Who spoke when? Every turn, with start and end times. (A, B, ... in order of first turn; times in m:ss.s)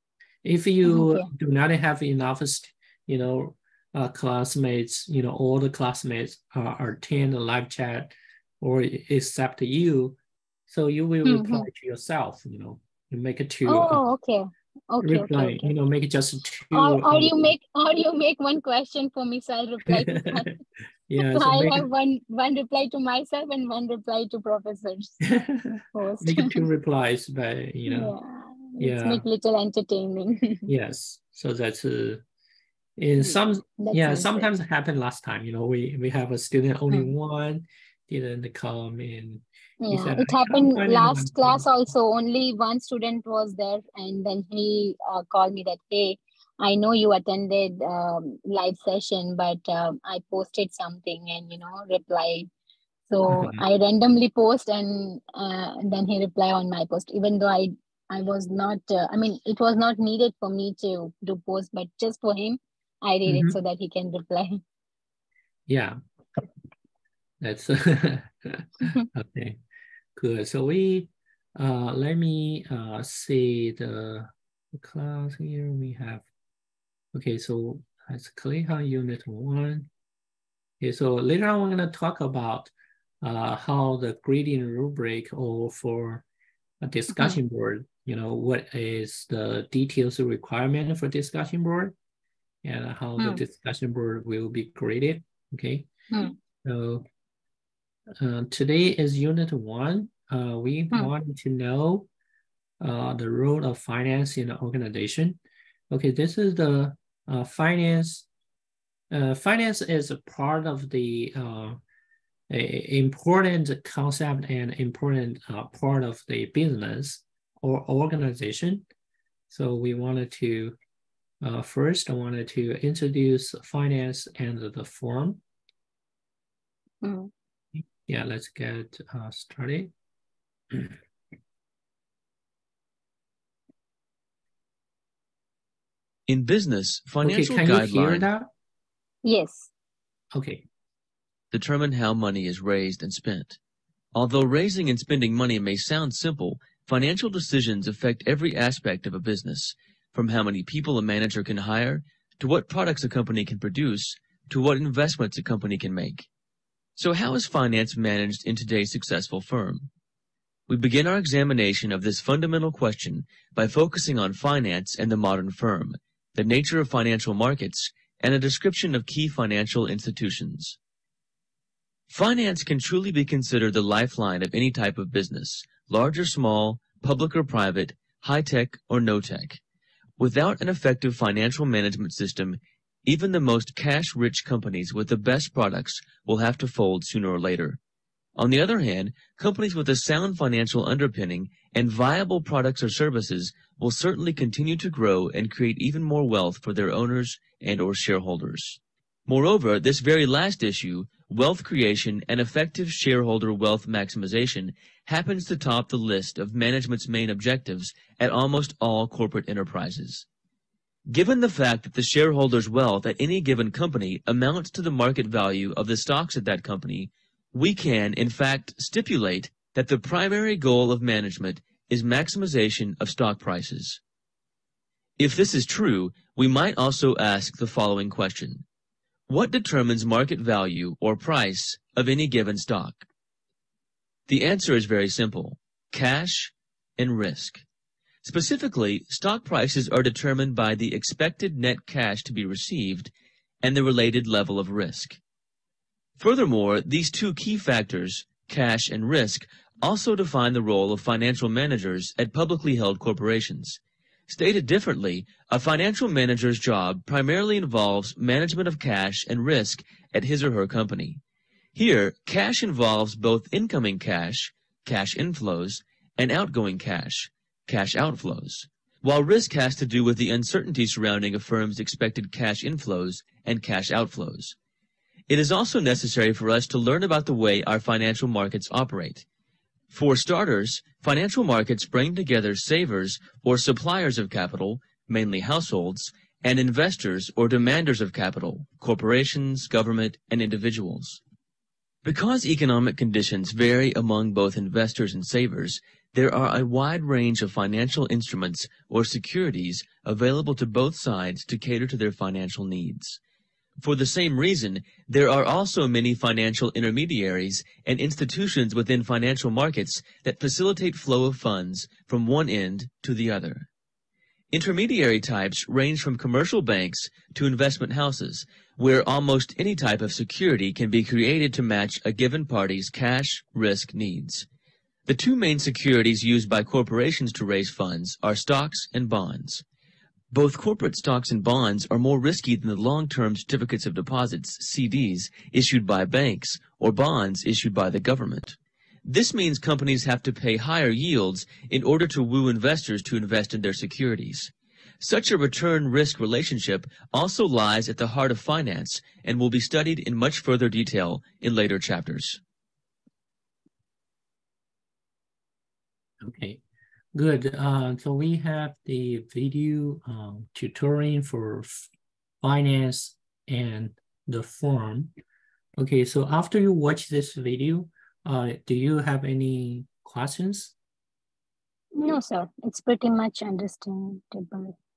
0:00.4-0:14.0 A
0:00.8-0:01.3 B
0:11.2-0:11.7 B
0:13.7-0:15.7 B
0:15.0-0:17.5 A
0:16.7-0:20.5 B
0:19.9-0:20.5 A
0:21.1-0:21.9 A
0:21.2-0:25.2 B
0:25.2-0:28.2 A
0:25.9-0:26.7 B
0:27.9-0:30.7 B
0:28.8-0:29.2 A
0:30.7-0:32.2 A
0:33.0-0:41.7 A
0:33.2-0:34.5 B
0:39.8-0:52.5 B
0:53.1-1:04.6 B
0:53.3-0:53.6 A
1:03.3-1:03.6 A
1:05.7-1:06.0 A
1:07.4-1:09.6 A
1:10.2-1:16.3 A
1:17.1-1:19.9 A
1:20.8-1:26.2 A
1:26.8-1:32.0 A
1:27.1-1:27.4 B
1:32.6-1:35.9 A
1:36.6-1:37.0 A
1:38.2-1:42.1 A
1:42.8-1:45.4 A
1:45.9-1:48.3 A
1:49.1-1:51.8 A
1:52.5-1:58.9 A
1:59.5-2:00.8 A
2:01.4-2:05.4 A
2:07.0-2:07.3 B
2:07.8-2:09.9 A
2:16.3-2:18.2 C
2:17.2-2:18.5 A
2:19.2-2:19.7 B
2:20.3-2:20.6 A
2:21.5-2:23.6 C
2:24.1-2:36.3 C
2:37.0-2:39.9 C
2:40.7-2:50.8 C
2:52.1-2:59.6 C
3:00.2-3:07.8 C
3:08.4-3:30.2 C
3:31.1-3:44.0 C
3:45.2-3:48.6 C
3:49.3-3:53.1 C
3:54.3-3:57.6 C
3:58.2-4:05.2 C
4:06.2-4:21.2 C
4:21.8-4:34.6 C
4:35.3-4:39.2 C
4:39.9-4:51.2 C
4:52.0-5:03.2 C
5:03.8-5:13.7 C
5:14.5-5:24.5 C
5:25.1-5:29.6 C
5:30.3-5:52.4 C
5:56.2-5:56.6 A
5:57.1-6:01.9 A
6:02.4-6:05.1 A
6:05.8-6:10.8 A
6:12.0-6:14.8 B